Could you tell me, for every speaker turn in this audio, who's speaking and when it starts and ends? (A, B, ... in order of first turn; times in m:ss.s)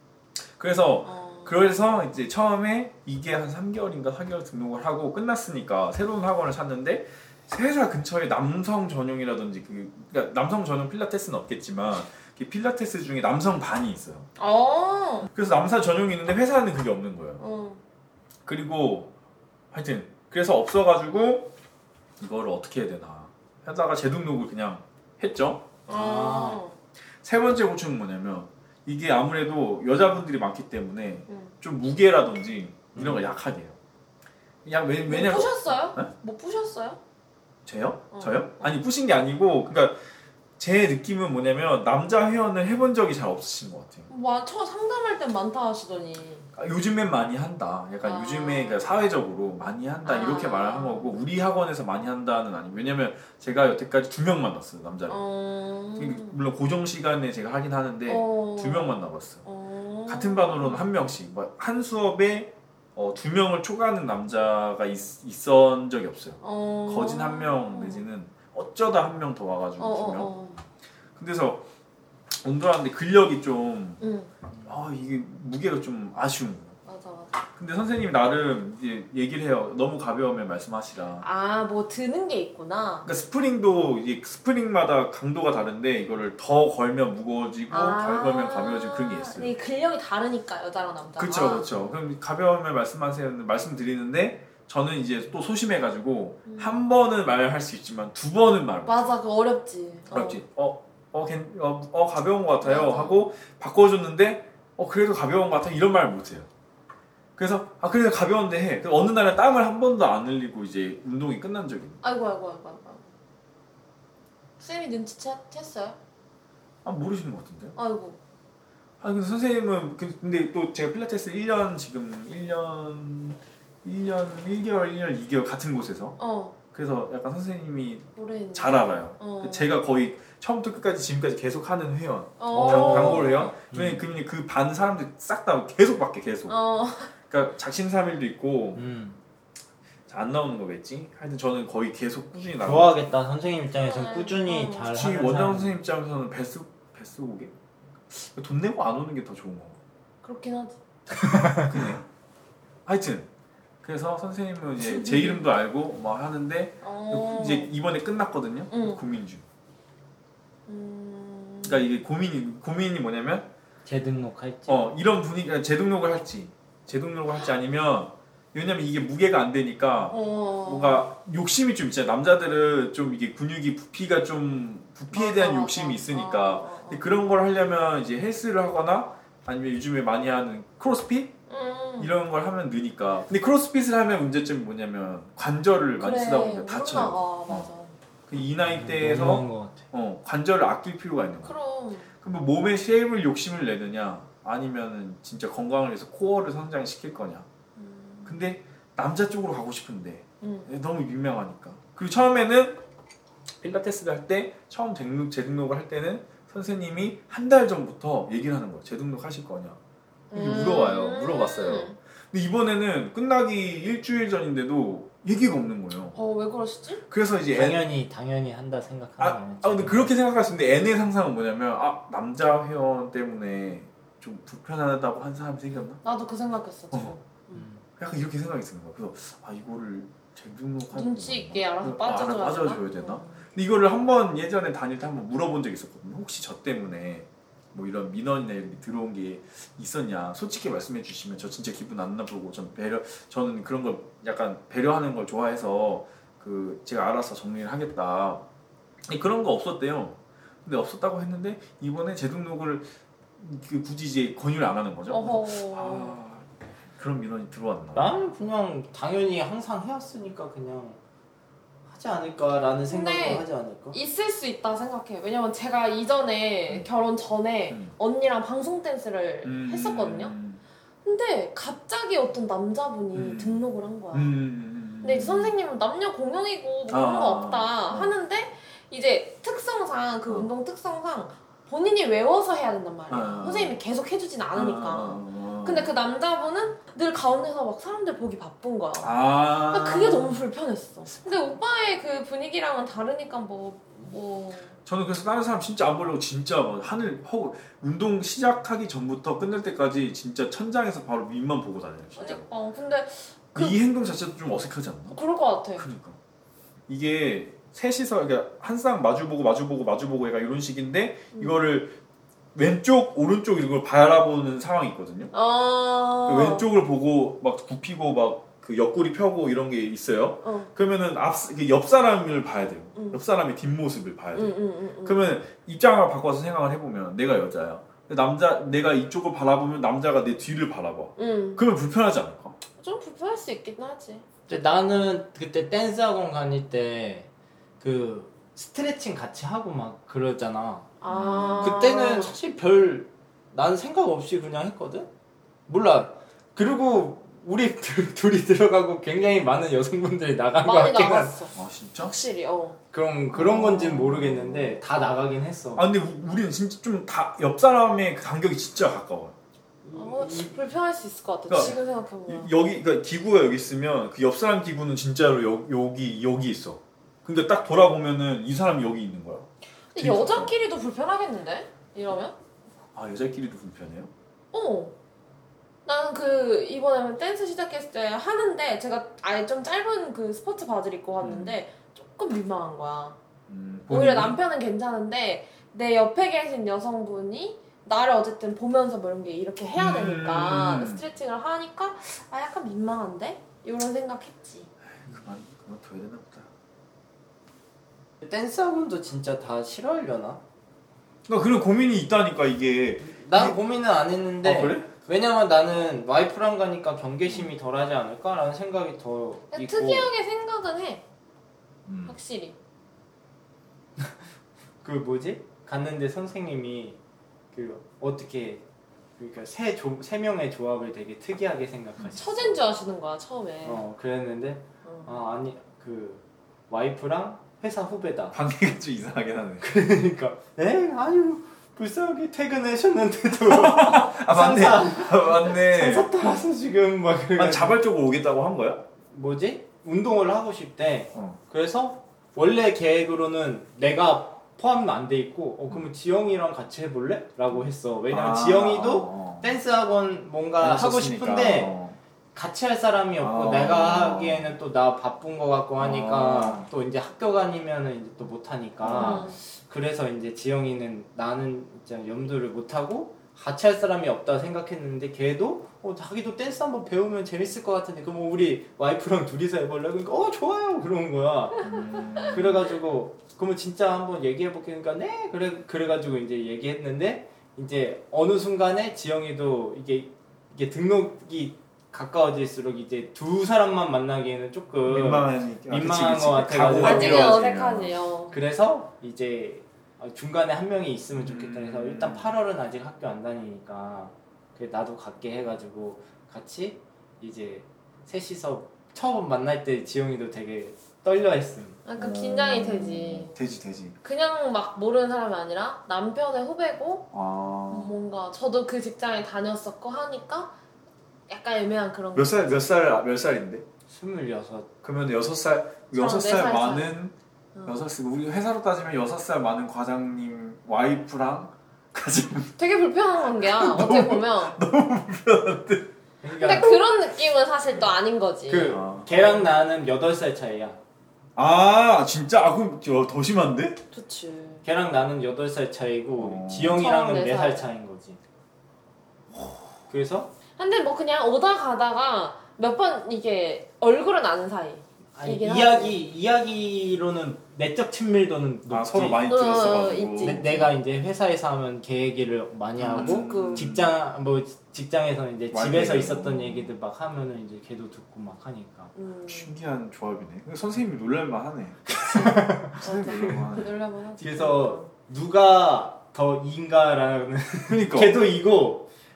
0:00.4-0:14.3 A
0:01.0-0:01.7 B
0:14.4-0:15.3 B
0:15.3-0:17.4 A
0:17.4-0:17.8 B
0:18.4-0:19.1 A
0:19.7-0:21.5 A
0:22.2-0:25.8 A
0:25.9-0:26.6 C
0:25.9-0:26.8 B
0:27.2-0:33.8 A
0:32.9-0:33.2 C
0:34.6-0:36.1 A
0:35.1-0:37.0 B
0:37.7-0:40.0 A
0:38.1-0:38.8 B
0:40.6-0:44.1 A
0:44.1-0:46.5 B
0:46.6-0:55.2 A
0:48.0-0:48.9 B
0:50.0-0:51.1 B
0:55.1-0:56.3 B
0:56.0-0:59.4 A
0:58.1-1:00.9 B
1:00.1-1:10.3 A
1:06.4-1:08.0 B
1:09.8-1:10.6 B
1:11.2-1:11.7 A
1:12.4-1:14.0 A
1:14.0-1:14.3 B
1:14.6-1:16.8 A
1:16.8-1:17.4 B
1:17.6-1:21.2 A
1:21.2-1:23.1 B
1:23.0-1:29.5 A
1:27.7-1:31.8 B
1:31.2-1:39.1 A
1:36.4-1:36.8 B
1:38.9-1:40.4 B
1:40.1-1:46.5 A
1:42.6-1:43.3 B
1:47.4-1:52.0 A
1:52.0-1:53.1 B
1:54.6-1:56.0 B
1:56.8-1:57.8 A
1:57.8-1:58.2 B
1:59.0-2:06.2 A
2:06.2-2:06.6 B
2:06.7-2:16.6 A
2:08.2-2:09.7 B
2:12.4-2:13.5 B
2:12.5-2:14.0 C
2:16.5-2:17.1 B
2:17.2-2:18.8 A
2:18.8-2:19.2 C
2:20.1-2:23.0 A
2:22.6-2:25.8 C
2:23.8-2:24.9 B
2:24.8-2:27.5 A
2:28.1-2:29.8 A
2:30.2-2:30.8 B
2:31.2-2:31.7 C
2:31.4-2:32.0 A
2:32.8-2:33.3 A
2:33.8-2:39.4 A
2:34.8-2:35.5 B
2:36.8-2:37.7 B
2:38.7-2:39.0 B
2:40.7-2:41.8 B
2:41.6-2:43.5 A
2:43.8-2:45.0 C
2:44.7-3:01.3 A
2:50.1-2:51.0 B
2:55.1-2:57.1 B
3:01.5-3:02.1 B
3:02.0-3:07.7 A
3:06.0-3:07.9 B
3:08.3-3:11.6 A
3:08.7-3:09.8 C
3:11.4-3:12.1 B
3:12.2-3:17.4 A
3:17.8-3:18.4 B
3:18.2-3:22.8 A
3:20.4-3:20.7 B
3:23.6-3:29.8 A
3:30.3-3:32.0 B
3:30.3-3:36.2 A
3:36.2-3:37.0 B
3:37.1-3:37.8 A
3:37.5-3:40.1 C
3:39.2-3:46.0 A
3:46.0-3:47.6 B
3:47.5-3:47.8 C
3:48.0-4:08.4 A
3:50.9-3:53.5 B
4:09.1-4:18.2 A
4:15.1-4:16.2 B
4:17.9-4:21.0 C
4:21.9-4:24.0 C
4:22.9-4:30.3 B
4:29.4-4:30.6 A
4:31.0-4:34.3 B
4:33.1-4:35.6 A
4:35.0-4:54.8 B
4:36.9-4:38.2 A
4:43.1-4:43.8 A
4:44.5-4:45.9 A
4:49.0-4:50.4 A
4:54.8-5:02.4 A
5:02.2-5:03.8 B
5:03.5-5:05.2 A
5:05.1-5:05.9 B
5:05.8-5:06.2 A
5:06.9-5:12.0 A
5:12.6-5:15.3 A
5:15.3-5:16.7 B
5:16.2-5:32.6 A
5:20.4-5:20.7 B
5:24.3-5:25.2 B
5:31.2-5:31.6 B
5:32.8-5:34.2 B
5:34.5-5:37.3 C
5:37.8-5:40.9 C
5:41.0-5:42.3 B
5:41.1-5:41.8 A
5:41.6-5:45.1 C
5:45.7-5:51.3 C
5:50.6-5:52.8 B
5:51.5-5:52.2 A
5:52.9-5:55.9 C
5:53.3-5:54.8 A
5:55.8-5:59.4 A
5:59.8-6:00.6 C
5:59.9-6:02.5 B
6:01.5-6:10.5 A
6:09.9-6:12.3 B
6:12.9-6:14.1 A
6:14.5-6:14.9 B
6:15.8-6:23.2 B
6:21.2-6:21.6 A
6:23.5-6:24.4 A
6:23.9-6:34.7 B
6:29.8-6:31.0 A
6:34.9-6:36.5 A
6:38.2-6:40.4 C
6:41.3-6:43.6 A
6:43.0-6:50.1 C
6:44.4-6:44.9 A
6:49.5-6:51.0 B
6:51.9-6:52.2 A
6:52.1-6:52.6 B
6:54.8-6:57.0 C
6:57.5-6:58.6 C
6:59.2-7:02.6 C
7:02.1-7:03.8 B
7:03.6-7:08.3 C
7:04.8-7:05.1 B
7:08.3-7:09.7 A
7:09.6-7:17.8 C
7:13.5-7:16.1 A
7:17.4-7:18.8 A
7:19.1-7:31.8 C
7:21.1-7:21.4 A
7:27.5-7:29.6 A
7:30.6-7:32.0 A
7:32.3-8:07.5 C
7:33.2-7:34.6 A
7:35.8-7:36.7 A
7:38.8-7:39.3 A
7:38.9-7:39.4 B
7:51.6-7:52.7 A
7:51.7-7:52.2 B
8:04.8-8:08.0 A
8:06.8-8:08.4 B
8:08.3-8:21.8 C
8:11.2-8:12.3 A
8:21.8-8:23.3 B
8:22.0-8:24.0 A
8:24.0-8:27.1 B
8:27.1-8:27.9 A
8:27.7-8:30.6 B
8:31.3-8:32.6 B
8:32.1-8:33.6 A
8:33.9-8:34.7 C
8:34.8-8:37.1 A
8:35.9-8:36.9 B
8:37.6-8:37.8 B
8:37.6-8:42.5 A
8:42.6-8:44.6 B
8:43.4-8:45.9 A
8:46.2-8:46.8 C
8:46.4-8:48.8 B
8:48.5-8:50.8 C
8:48.7-8:49.5 A
8:51.4-8:53.8 A
8:53.9-8:54.6 B
8:54.6-8:58.2 C
8:56.2-8:56.9 A
8:56.7-8:57.7 B
8:59.9-9:00.3 C
9:00.6-9:06.0 B
9:05.1-9:09.2 C
9:08.7-9:10.7 A
9:09.3-9:10.5 B
9:10.2-9:18.9 C
9:12.8-9:13.9 A
9:12.9-9:13.8 B
9:15.5-9:16.7 A
9:18.9-9:19.5 B
9:19.3-9:23.7 A
9:22.0-9:23.6 C
9:22.8-9:24.9 B
9:24.2-9:28.9 C
9:27.7-9:28.3 A